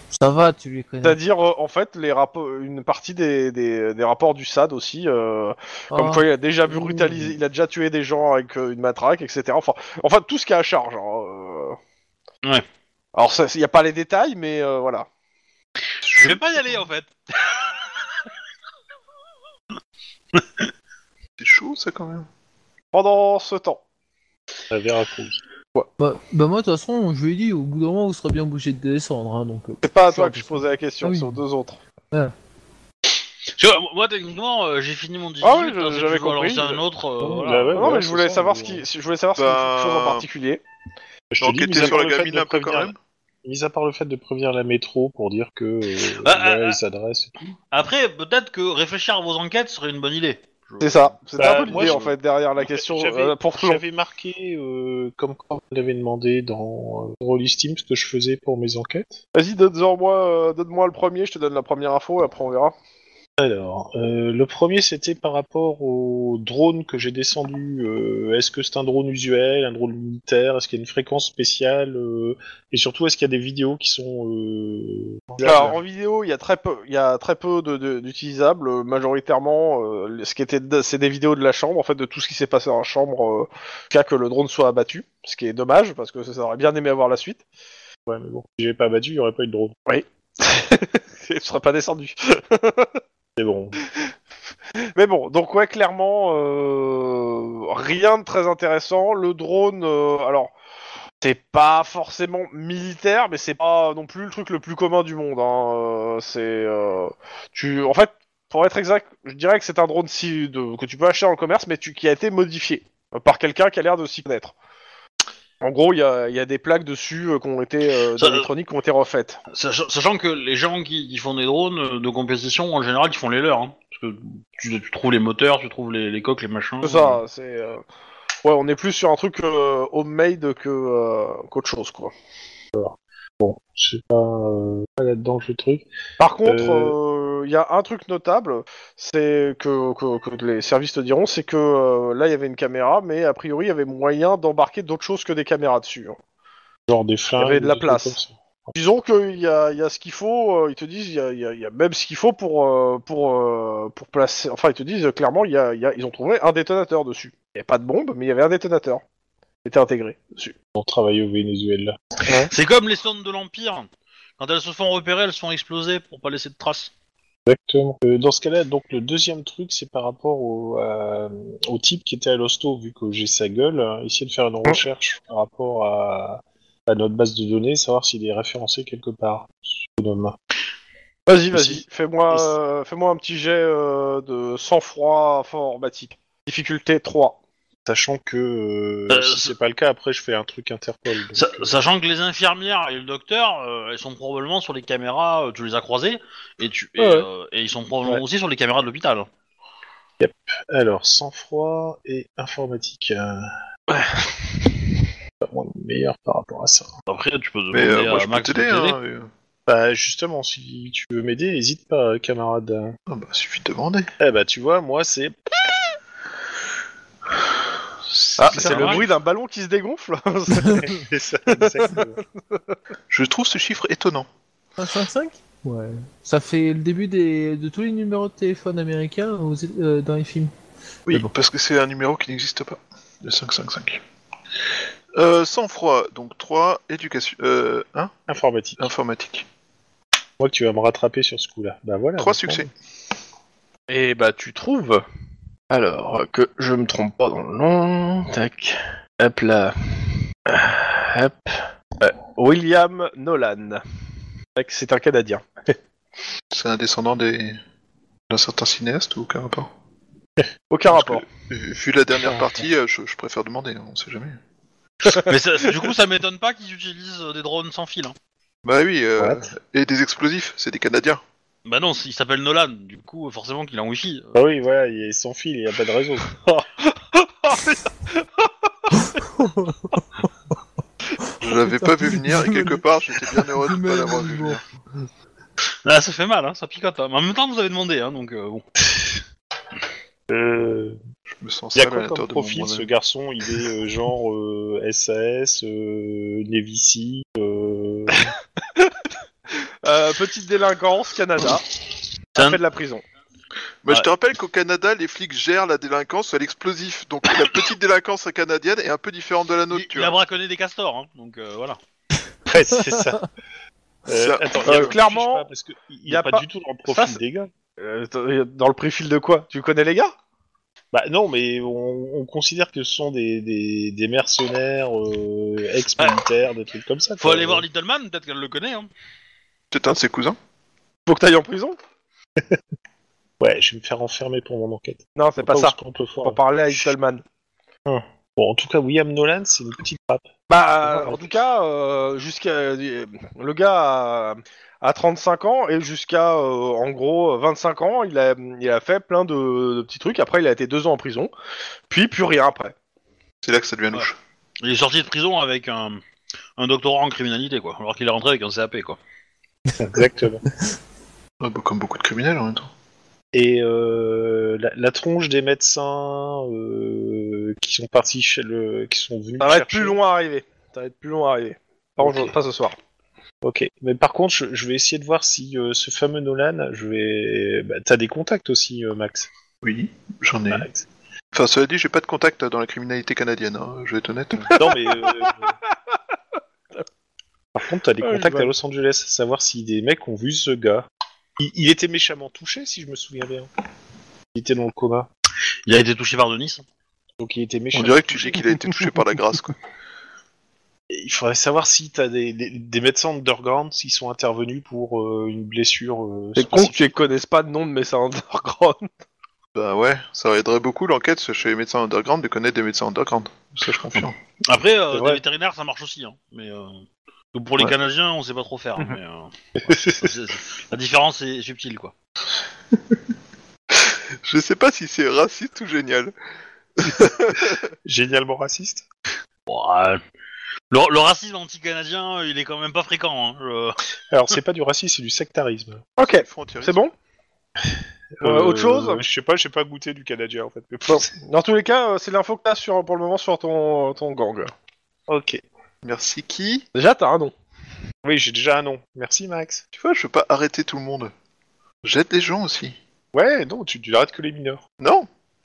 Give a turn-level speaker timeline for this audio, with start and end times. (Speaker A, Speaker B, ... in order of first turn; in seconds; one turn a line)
Speaker A: 0.1-1.2
Speaker B: 1.0-11.8
Speaker A: 5.9-7.3
Speaker B: 13.1-15.1
Speaker C: 16.0-17.1
Speaker C: 20.3-20.7
Speaker D: 21.4-22.3
Speaker B: 22.9-23.8
Speaker E: 24.7-25.4
Speaker A: 26.0-31.4
Speaker B: 29.8-31.8
Speaker C: 33.5-38.0
Speaker B: 35.4-36.8
Speaker E: 37.2-38.8
Speaker B: 37.7-40.6
Speaker D: 39.4-40.2
Speaker E: 41.3-42.9
Speaker D: 41.4-43.0
Speaker E: 43.4-47.5
Speaker C: 46.2-46.8
Speaker C: 47.7-52.1
Speaker B: 50.8-53.8
Speaker E: 51.4-59.2
Speaker B: 59.3-62.7
Speaker E: 63.4-75.8
Speaker B: 75.4-87.4
Speaker D: 75.5-75.7
Speaker E: 88.1-89.7
Speaker B: 89.9-92.9
Speaker E: 93.4-93.8
Speaker B: 94.9-100.5
Speaker B: 101.2-114.5
Speaker B: 115.6-119.4
Speaker C: 118.2-118.5
Speaker C: 119.5-127.2
Speaker B: 126.8-127.8
Speaker B: 128.4-132.1
Speaker E: 132.7-135.9
Speaker B: 136.2-146.2
Speaker E: 136.4-136.9
Speaker E: 146.9-148.7
Speaker B: 147.3-148.2
Speaker B: 148.7-159.0
Speaker B: 159.6-160.6
Speaker E: 160.7-162.3
Speaker C: 162.5-163.9
Speaker C: 164.4-166.9
Speaker E: 167.4-180.3
Speaker B: 181.3-187.4
Speaker E: 181.5-182.5
Speaker E: 187.8-191.7
Speaker C: 189.1-189.5
Speaker C: 191.3-199.3
Speaker B: 197.0-197.3
Speaker E: 200.2-203.5
Speaker B: 203.9-204.8
Speaker E: 205.4-206.9
Speaker C: 207.1-209.0
Speaker D: 207.7-209.3
Speaker E: 209.7-212.9
Speaker D: 213.1-214.1
Speaker E: 214.2-215.3
Speaker D: 218.1-219.0
Speaker B: 218.4-220.9
Speaker C: 218.5-219.1
Speaker E: 220.6-222.2
Speaker B: 221.5-222.6
Speaker D: 223.1-224.3
Speaker A: 224.8-230.5
Speaker D: 231.1-234.0
Speaker D: 235.1-238.1
Speaker E: 238.3-238.9
Speaker D: 238.8-239.4
Speaker E: 240.4-242.6
Speaker D: 242.2-242.7
Speaker B: 243.9-245.0
Speaker B: 245.7-253.8
Speaker B: 254.6-255.7
Speaker D: 256.5-257.6
Speaker D: 258.3-259.7
Speaker B: 260.7-261.3
Speaker D: 260.9-264.4
Speaker B: 265.0-265.3
Speaker C: 265.1-268.1
Speaker D: 268.6-271.2
Speaker E: 269.2-269.5
Speaker C: 271.6-274.3
Speaker E: 274.3-276.4
Speaker B: 276.8-278.4
Speaker A: 279.2-280.0
Speaker A: 281.4-284.6
Speaker D: 281.4-284.6
Speaker C: 285.8-288.6
Speaker E: 290.3-291.0
Speaker D: 291.3-292.9
Speaker E: 291.7-298.3
Speaker B: 298.1-298.9
Speaker B: 299.8-301.6
Speaker B: 302.3-303.0
Speaker D: 303.8-310.1
Speaker C: 309.7-311.8
Speaker E: 312.5-313.2
Speaker E: 314.1-317.5
Speaker D: 314.2-314.9
Speaker B: 314.6-315.5
Speaker B: 316.1-317.2
Speaker B: 317.8-320.1
Speaker E: 320.9-327.6
Speaker C: 327.2-328.9
Speaker D: 329.7-330.4
Speaker B: 331.1-331.8
Speaker E: 333.4-336.8
Speaker B: 335.2-337.2
Speaker E: 337.9-340.3
Speaker B: 340.5-351.3
Speaker E: 340.8-341.3
Speaker B: 351.9-352.7
Speaker D: 353.4-354.1
Speaker C: 354.6-356.0
Speaker C: 356.6-359.0
Speaker E: 359.8-360.4
Speaker D: 361.4-362.7
Speaker E: 363.3-370.0
Speaker B: 369.4-372.7
Speaker E: 372.0-372.3
Speaker E: 373.4-379.3
Speaker D: 379.6-380.7
Speaker E: 380.5-380.9
Speaker D: 381.3-384.6
Speaker B: 384.5-385.3
Speaker E: 384.5-385.5
Speaker E: 387.5-390.9
Speaker B: 388.0-388.5
Speaker E: 391.4-393.5
Speaker E: 394.3-395.1
Speaker C: 395.7-396.6
Speaker E: 397.2-398.4
Speaker D: 397.7-399.5
Speaker E: 400.9-406.9
Speaker B: 406.4-408.9
Speaker D: 409.5-414.1
Speaker C: 414.5-416.8
Speaker E: 414.9-415.2
Speaker C: 417.3-421.9
Speaker E: 419.6-420.1
Speaker D: 423.8-426.1
Speaker D: 426.8-427.6
Speaker E: 427.8-428.8
Speaker C: 429.5-430.0
Speaker C: 430.7-433.8
Speaker E: 434.1-435.9
Speaker B: 436.0-436.9
Speaker D: 436.0-436.8
Speaker E: 438.2-441.1
Speaker B: 438.2-439.0
Speaker B: 440.9-444.5
Speaker E: 445.1-445.4
Speaker D: 445.8-446.7
Speaker B: 446.7-447.3
Speaker E: 448.0-449.6
Speaker D: 449.7-451.1
Speaker D: 451.8-452.8
Speaker E: 453.1-454.6
Speaker D: 454.8-455.1